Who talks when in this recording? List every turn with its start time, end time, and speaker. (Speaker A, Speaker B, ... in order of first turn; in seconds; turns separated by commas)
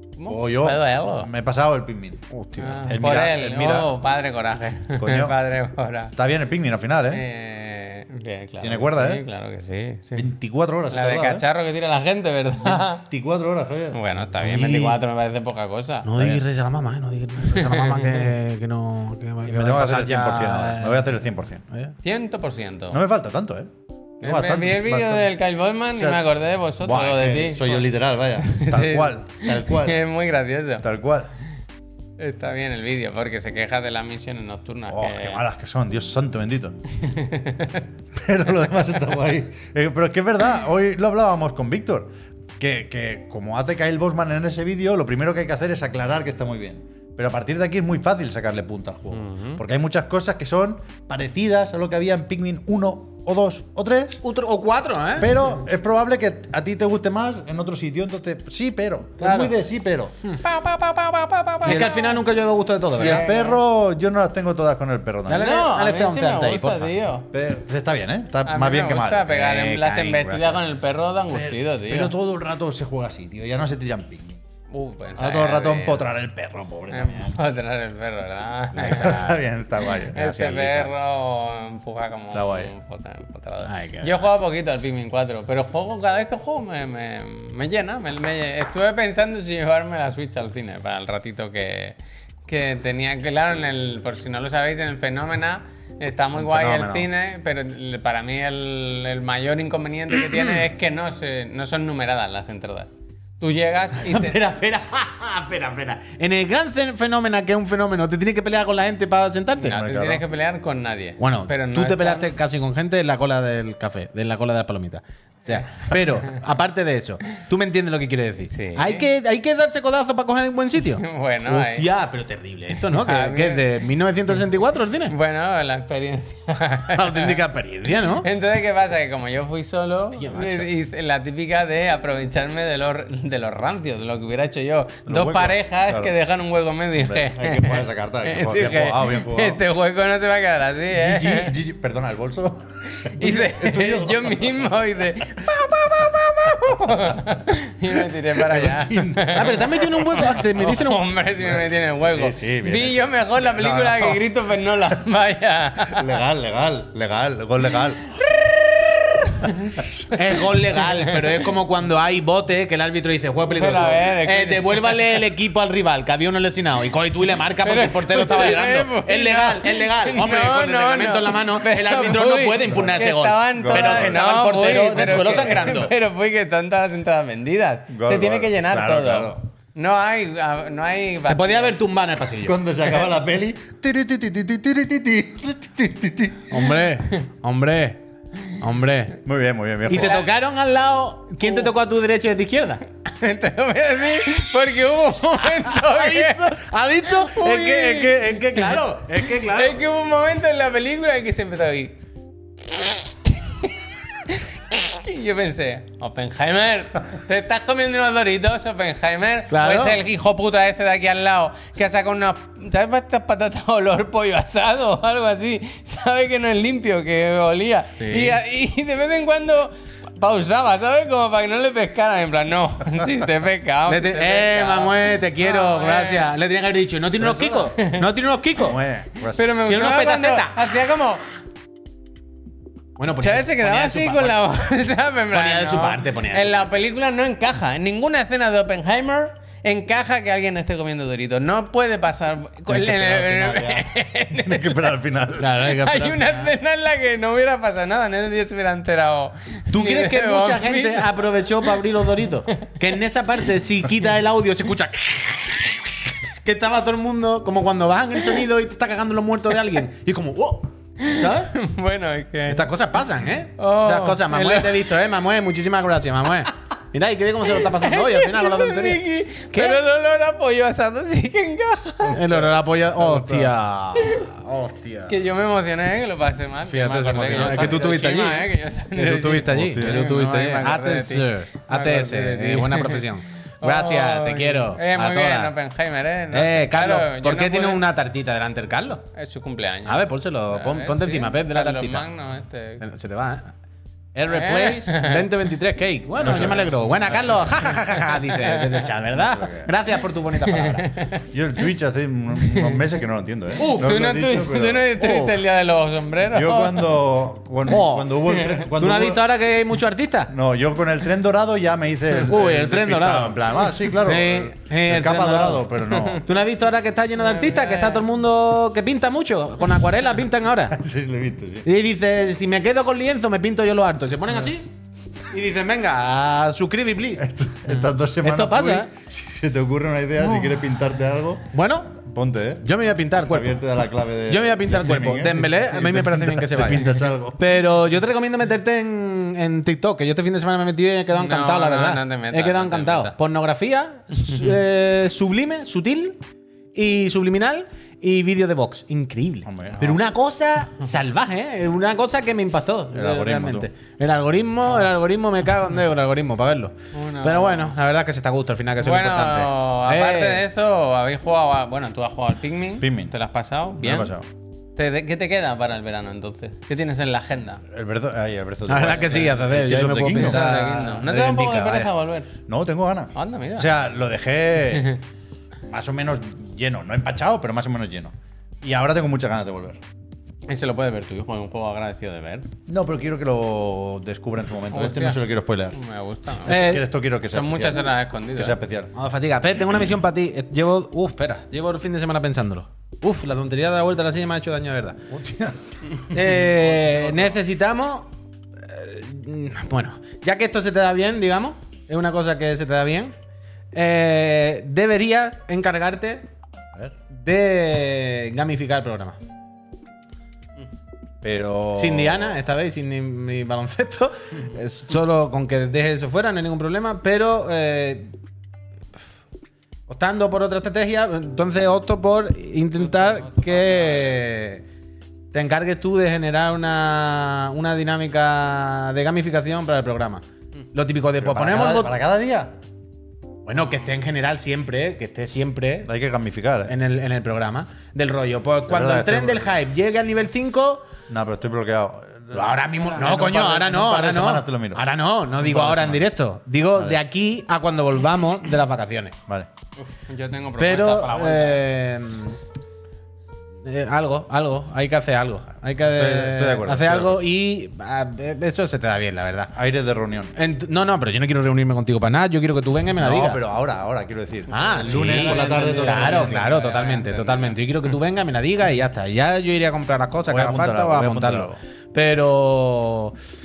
Speaker A: 0.2-1.3, Speaker B: 0.3-2.2, Speaker C: 2.3-3.0, Speaker A: 2.6-6.2, Speaker B: 2.9-3.9, Speaker B: 5.0-5.4, Speaker B: 6.2-7.2, Speaker A: 7.1-10.3, Speaker B: 8.6-9.2, Speaker B: 10.2-11.4, Speaker A: 10.9-13.1, Speaker B: 13.1-14.0, Speaker A: 13.9-16.1, Speaker C: 14.4-15.0, Speaker C: 16.1-21.9, Speaker A: 17.5-18.3, Speaker B: 19.4-21.6, Speaker A: 22.0-23.0, Speaker B: 22.9-23.7, Speaker A: 24.2-27.9, Speaker B: 24.2-25.3, Speaker B: 25.9-26.2, Speaker B: 26.8-30.0, Speaker A: 28.4-30.9, Speaker B: 30.8-31.3, Speaker A: 32.2-35.4, Speaker B: 34.9-36.8, Speaker A: 37.0-37.9, Speaker B: 38.1-54.2, Speaker A: 49.1-49.6, Speaker C: 54.2-55.5, Speaker B: 55.2-60.1, Speaker C: 59.2-59.5, Speaker A: 60.4-62.2, Speaker C: 61.6-63.3, Speaker B: 61.6-62.0, Speaker B: 63.0-65.5, Speaker A: 63.0-63.6, Speaker C: 65.3-66.9, Speaker A: 65.3-67.3, Speaker B: 67.3-69.4, Speaker A: 68.5-72.1, Speaker C: 69.3-70.6, Speaker B: 71.3-74.4, Speaker A: 74.7-76.1, Speaker B: 75.2-77.4, Speaker A: 76.9-79.3, Speaker C: 78.7-79.5, Speaker B: 78.8-80.2, Speaker A: 79.8-92.0, Speaker C: 80.1-80.9, Speaker B: 82.3-82.7, Speaker C: 83.7-84.3, Speaker A: 92.5-104.4, Speaker B: 96.3-97.1, Speaker C: 100.2-100.6, Speaker C: 104.0-109.8, Speaker A: 109.6-112.4, Speaker B: 109.6-110.2, Speaker C: 111.2-125.1, Speaker A: 115.5-116.3, Speaker A: 118.5-119.0, Speaker A: 120.9-121.9, Speaker A: 122.9-123.7, Speaker A: 125.1-127.4, Speaker C: 126.9-128.3, Speaker A: 128.1-141.5, Speaker C: 130.2-130.7, Speaker B: 135.1-136.1, Speaker B: 137.0-139.6, Speaker B: 141.0-144.7, Speaker A: 143.1-156.2, Speaker B: 148.3-149.9, Speaker C: 149.3-151.1, Speaker B: 151.4-154.2, Speaker B: 155.9-158.1, Speaker A: 158.2-161.4, Speaker C: 160.1-175.9, Speaker A: 163.6-165.1, Speaker A: 167.6-181.8, Speaker B: 172.7-172.9, Speaker B: 173.6-174.2, Speaker B: 174.8-175.5, Speaker B: 177.9-179.4, Speaker C: 181.3-182.6, Speaker B: 182.4-186.6, Speaker C: 186.5-189.2, Speaker B: 189.2-190.2, Speaker C: 189.9-192.8, Speaker A: 189.9-190.3, Speaker A: 193.1-201.9, Speaker C: 195.2-199.8, Speaker A: 202.7-226.3, Speaker C: 209.5-210.0, Speaker C: 218.0-218.4, Speaker C: 223.9-228.8, Speaker B: 227.2-227.7, Speaker A: 227.7-228.1, Speaker B: 228.6-229.6, Speaker A: 229.2-231.2, Speaker C: 229.7-230.6, Speaker C: 233.0-234.5, Speaker A: 233.2-244.9, Speaker C: 235.3-236.7, Speaker B: 242.7-245.5, Speaker C: 245.4-246.5, Speaker A: 245.6-252.7, Speaker C: 249.7-261.5, Speaker A: 261.0-262.7, Speaker C: 262.5-269.8, Speaker A: 263.6-264.9, Speaker A: 267.5-272.4, Speaker B: 272.1-272.4, Speaker C: 272.1-275.2, Speaker B: 272.9-273.5, Speaker A: 274.0-274.3, Speaker A: 275.1-283.1, Speaker C: 276.7-285.5, Speaker B: 279.5-280.1, Speaker A: 283.6-287.8, Speaker C: 286.3-289.0, Speaker A: 289.1-292.8, Speaker C: 289.9-292.1, Speaker C: 292.8-293.5, Speaker C: 294.1-300.9, Speaker A: 294.3-295.3, Speaker B: 296.2-297.4, Speaker A: 297.6-298.9, Speaker B: 299.1-299.7, Speaker A: 300.5-301.2, Speaker B: 301.3-304.9, Speaker A: 302.5-302.8, Speaker A: 303.6-307.0, Speaker C: 303.6-304.0, Speaker C: 305.0-305.4, Speaker B: 306.3-309.2, Speaker C: 307.7-310.3, Speaker A: 308.3-308.7, Speaker B: 310.3-316.2, Speaker C: 312.1-320.8, Speaker A: 315.9-316.2, Speaker A: 317.2-318.1, Speaker B: 320.7-321.7, Speaker C: 321.6-324.7, Speaker C: 325.3-327.2, Speaker B: 327.2-337.4, Speaker C: 328.2-328.9, Speaker C: 331.5-332.0, Speaker C: 332.6-333.7, Speaker C: 334.3-346.2, Speaker A: 341.1-343.1, Speaker C: 346.8-360.4, Speaker B: 349.4-350.0, Speaker B: 352.9-353.7, Speaker A: 356.9-357.8, Speaker A: 358.8-364.1, Speaker B: 362.8-363.1, Speaker B: 363.8-364.3, Speaker A: 364.8-367.6, Speaker B: 367.7-370.5, Speaker C: 368.7-371.9, Speaker A: 370.1-372.3, Speaker B: 372.5-374.9, Speaker A: 373.1-373.7, Speaker A: 374.7-375.0, Speaker B: 375.6-379.8, Speaker A: 380.5-382.5, Speaker B: 382.7-385.8, Speaker A: 384.7-385.2, Speaker A: 385.7-388.6, Speaker B: 386.4-388.9, Speaker C: 386.4-386.9, Speaker C: 388.9-395.0, Speaker B: 395.1-395.6, Speaker C: 396.1-398.1, Speaker B: 396.8-397.4, Speaker C: 398.6-403.1, Speaker C: 403.7-406.2, Speaker C: 407.1-409.2, Speaker B: 411.2-412.4, Speaker C: 411.8-418.1, Speaker C: 419.9-424.6, Speaker A: 422.8-424.2, Speaker C: 425.3-431.9, Speaker B: 431.2-432.5, Speaker C: 433.5-435.9, Speaker B: 435.8-436.7, Speaker C: 436.7-440.9, Speaker B: 438.7-439.6, Speaker B: 441.1-444.9, Speaker C: 442.3-449.1, Speaker B: 445.4-446.1, Speaker B: 446.7-447.0, Speaker A: 449.8-451.6, Speaker C: 450.6-452.4, Speaker C: 453.6-459.5, Speaker B: 455.8-457.2, Speaker B: 459.5-460.3, Speaker C: 460.4-463.4, Speaker B: 463.0-466.5, Speaker C: 464.5-473.2, Speaker A: 464.6-467.6, Speaker B: 470.3-471.6